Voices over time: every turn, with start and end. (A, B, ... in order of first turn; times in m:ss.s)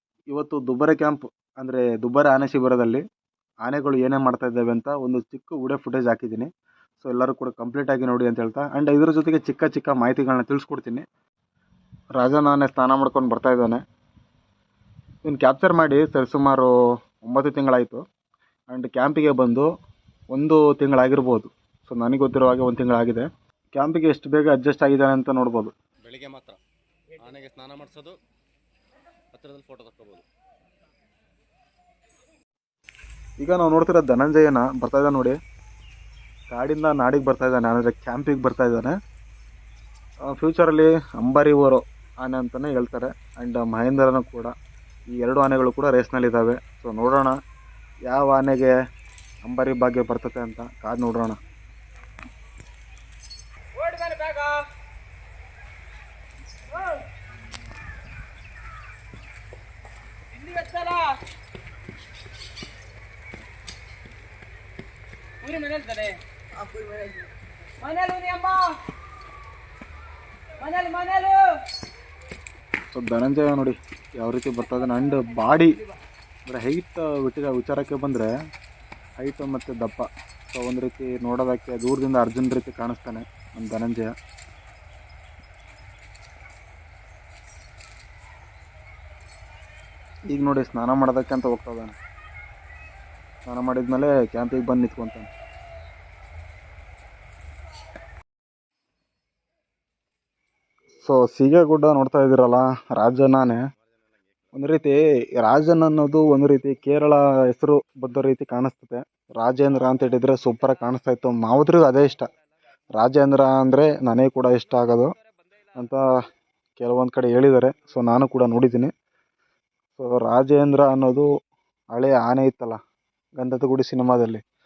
0:00.3-0:03.0 A
0:03.6-0:06.5 A
0:07.0-0:11.0 A
0:12.2-0:13.8 A
0:15.2-0:18.0 A
0:18.7-0:19.7 A
0:20.3-0:25.7 A
0:26.0-0:26.6 B
0:27.2-0:28.2 B
0:29.3-0:30.3 B
0:33.4-0:35.4 A
0:36.5-0:39.0 A
0:40.3-0:44.5 A
0:45.1-0:47.3 A
0:48.1-0:48.7 A
0:49.4-0:51.4 A
0:54.0-0:54.4 B
1:05.6-1:05.9 C
1:05.7-1:06.1 B
1:07.8-1:08.7 C
1:10.6-1:11.4 C
1:12.9-1:15.8 A
1:16.4-1:18.3 A
1:19.2-1:24.1 A
1:30.3-1:32.0 A
1:33.4-1:35.3 A
1:41.0-1:43.6 A
1:44.5-1:52.3 A
1:53.0-1:55.1 A
1:55.8-1:56.0 A
1:56.8-1:58.9 A
2:00.0-2:01.3 A
2:01.9-2:02.8 A
2:03.4-2:04.4 A